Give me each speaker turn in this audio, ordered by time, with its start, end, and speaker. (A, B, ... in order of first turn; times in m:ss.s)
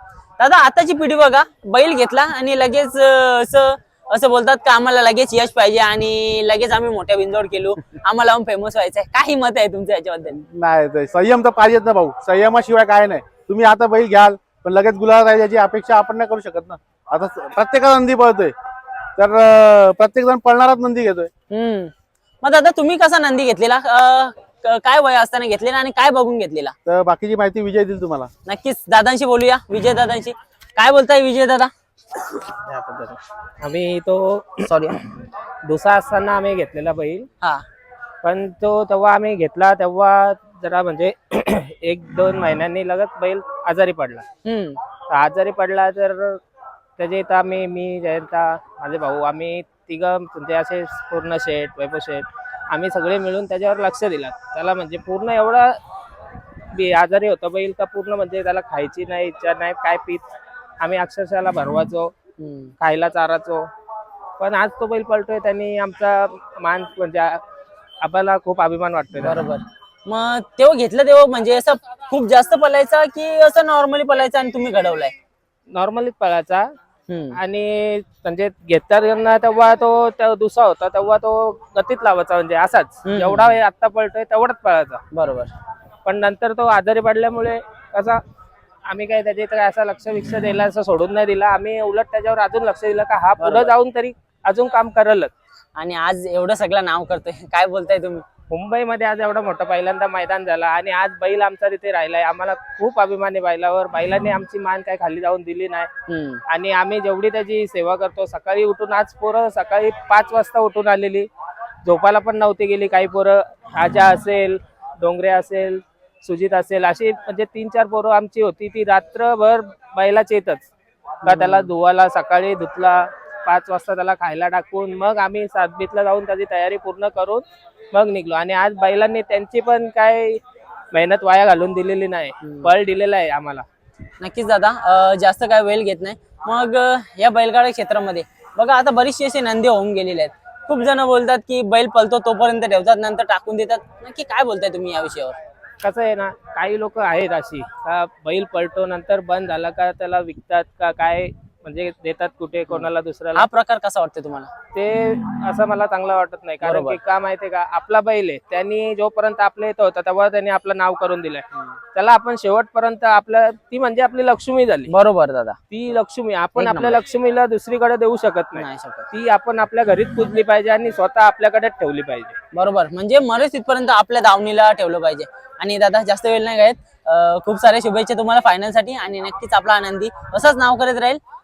0:00.4-0:10.4 A
0:10.3-0:18.5 B
0:19.2-0:21.3 B
0:21.5-0:26.7 A
0:26.8-0:28.3 B
0:28.4-0:31.7 A
0:32.5-0:35.0 C
0:35.6-0:37.3 C
0:38.2-0:44.2 C
0:44.4-0:44.8 A
0:45.1-0:46.4 C
0:47.0-0:55.8 C
0:56.7-1:00.2 C
1:00.8-1:02.1 C
1:02.4-1:02.7 A
1:02.8-1:03.6 C
1:04.4-1:07.4 C
1:08.0-1:09.4 C
1:09.2-1:15.1 A
1:15.7-1:16.7 C
1:17.1-1:17.4 A
1:17.4-1:25.0 C
1:23.0-1:23.6 A
1:25.1-1:25.5 A
1:26.0-1:28.2 C
1:28.9-1:35.3 C
1:33.4-1:33.7 A
1:35.8-1:38.2 A
1:38.5-1:45.9 C
1:46.1-1:46.4 A
1:46.5-1:51.3 C
1:51.8-2:00.7 C
2:01.2-2:01.7 A
2:01.2-2:10.4 C
2:10.9-2:13.6 C
2:12.4-2:12.7 A
2:14.2-2:25.4 A
2:25.8-2:33.5 C
2:32.7-2:34.5 A
2:34.7-2:44.9 C
2:36.6-2:37.0 A
2:44.9-2:45.6 A
2:45.7-2:52.4 C
2:46.6-2:47.0 A
2:48.6-2:49.1 A
2:52.5-3:01.2 A